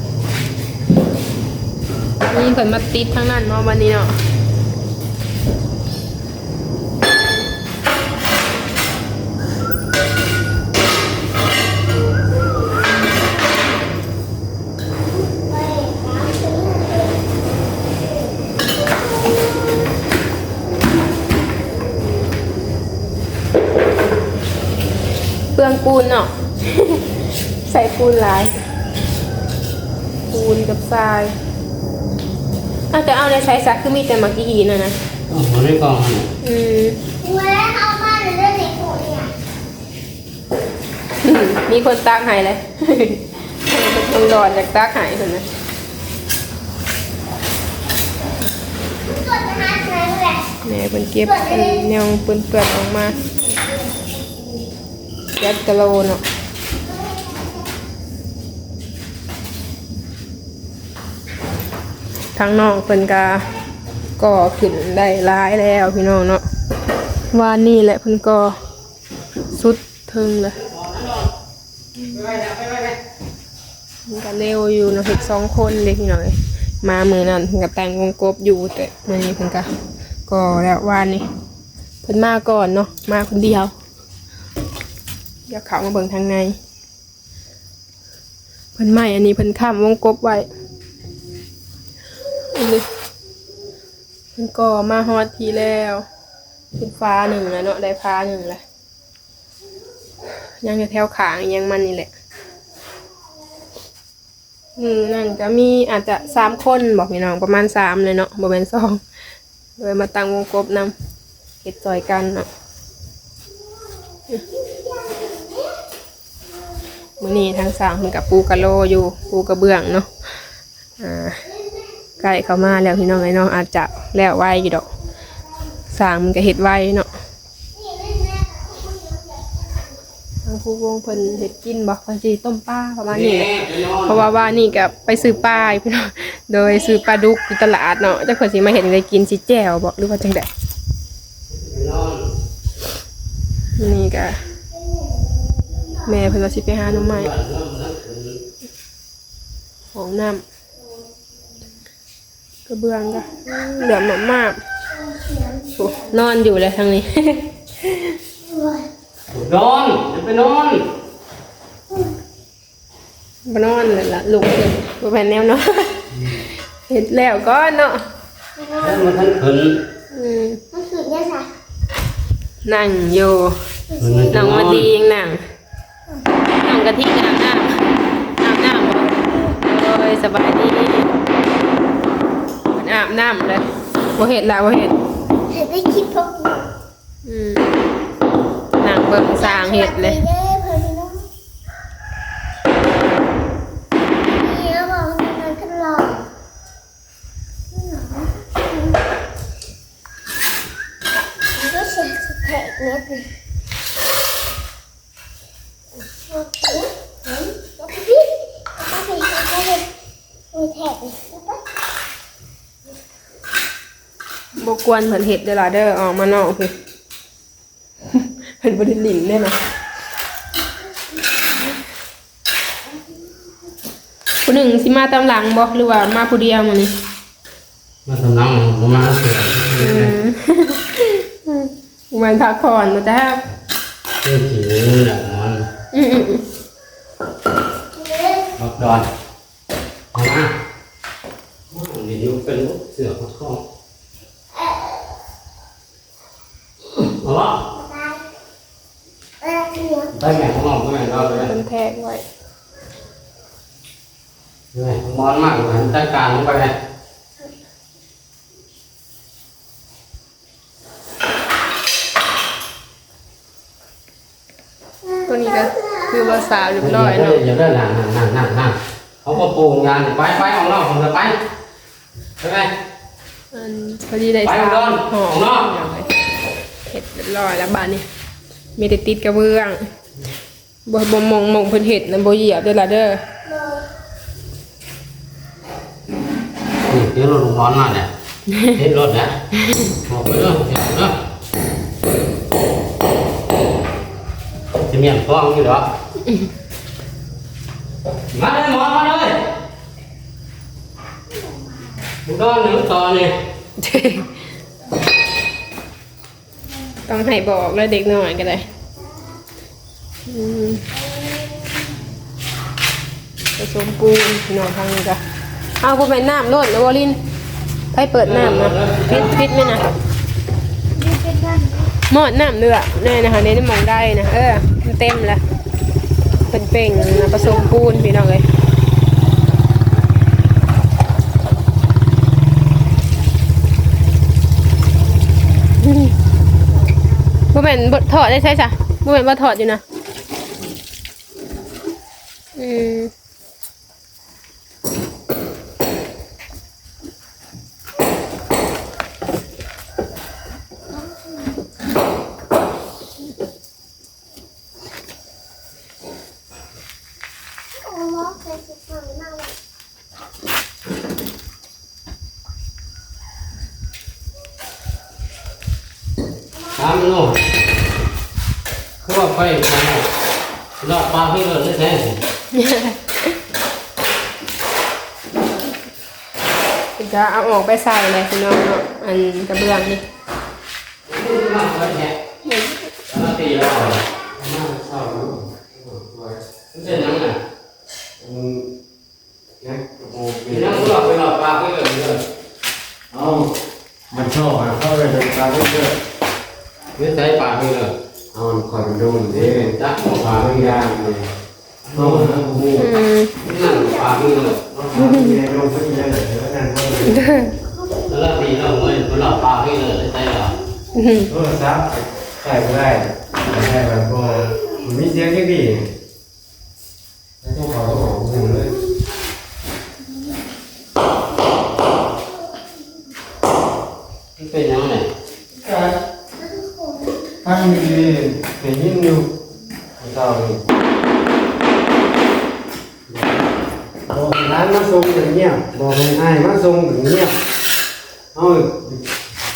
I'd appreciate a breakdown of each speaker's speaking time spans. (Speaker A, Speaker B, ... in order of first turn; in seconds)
Speaker A: 2.3-4.1, 25.5-27.0, 27.6-28.6, 30.3-31.3, 32.9-35.0, 36.4-37.0, 41.2-45.5, 50.6-53.2, 55.4-56.2, 62.4-63.4, 64.2-66.4, 67.3-68.6, 69.5-70.6, 74.1-79.7, 80.3-81.2, 82.0-83.7, 85.5-86.5, 88.8-90.5, 92.5-92.8, 94.3-96.0, 96.7-98.6, 100.6-102.1, 104.8-109.0, 109.8-110.9, 111.6-112.5, 117.2-120.1, 121.0-121.4, 122.2-124.8, 125.9-127.1, 130.4-140.5, 143.8-144.4, 146.0-147.3, 149.9-150.4, 152.7-154.6, 155.7-158.2, 163.4-166.0, 166.9-168.0, 170.1-170.6, 172.6-173.6, 174.3-175.4, 176.5-177.8, 178.4-181.1, 182.7-183.6, 184.2-184.9, 187.2-187.8, 188.8-190.2, 214.6-216.7, 218.1-219.6, 224.4-226.9, 229.8-233.4, 235.9-236.4, 251.1-252.2, 265.2-267.4, 273.5-276.1, 276.9-278.0, 278.8-279.8, 280.9-283.2, 288.5-288.7, 303.8-304.3, 307.1-308.6, 310.3-310.8, 313.6-315.2, 315.8-317.2, 317.9-319.8, 322.1-325.4, 326.5-328.4, 335.8-336.1, 337.5-339.8, 342.6-343.1, 372.5-373.3, 377.0-380.0, 382.4-382.9, 402.8-403.3, 404.9-405.4, 407.1-407.5, 410.9-411.3
Speaker B: 15.3-17.3, 37.2-39.3, 49.1-50.5, 51.3-51.8, 114.9-115.5, 127.8-129.4, 155.3-155.7, 158.4-158.8, 168.6-169.0, 170.7-171.5, 185.5-186.7, 189.4-191.3, 194.4-196.3, 197.7-198.3, 201.5-203.3, 206.3-209.9, 210.5-211.6, 237.9-238.5, 244.5-245.0, 247.7-248.2, 249.4-250.1, 320.9-321.9, 357.8-359.5
Speaker C: 35.3-36.3, 70.8-71.2, 72.1-73.0, 133.1-134.3, 141.5-142.2, 146.8-148.4, 159.3-160.8, 168.8-169.8, 174.0-174.9, 228.1-230.1, 234.2-235.6, 238.6-239.1, 240.1-240.5, 241.7-243.6, 246.9-247.7, 250.1-251.5, 254.7-256.7, 266.8-271.4, 272.4-272.7, 274.4-275.7, 286.9-288.1, 288.7-289.4, 290.1-291.1, 294.9-295.9, 298.3-299.4, 302.2-303.3, 318.2-319.4, 366.7-367.4, 369.0-370.1, 370.8-372.2, 381.1-382.1, 383.1-384.0, 386.7-387.4, 390.5-392.2, 397.0-397.9, 399.3-400.9, 401.9-402.8, 403.4-405.1, 408.0-410.6, 424.4-425.1
Speaker D: 384.4-386.4, 388.2-388.7, 389.6-391.0, 393.1-393.5, 394.1-395.9, 398.3-399.7, 400.3-401.3, 401.9-402.9, 404.9-407.2, 411.3-415.9, 417.4-418.8, 425.6-425.9, 427.4-429.3, 430.0-430.6, 434.1-437.4, 438.3-439.0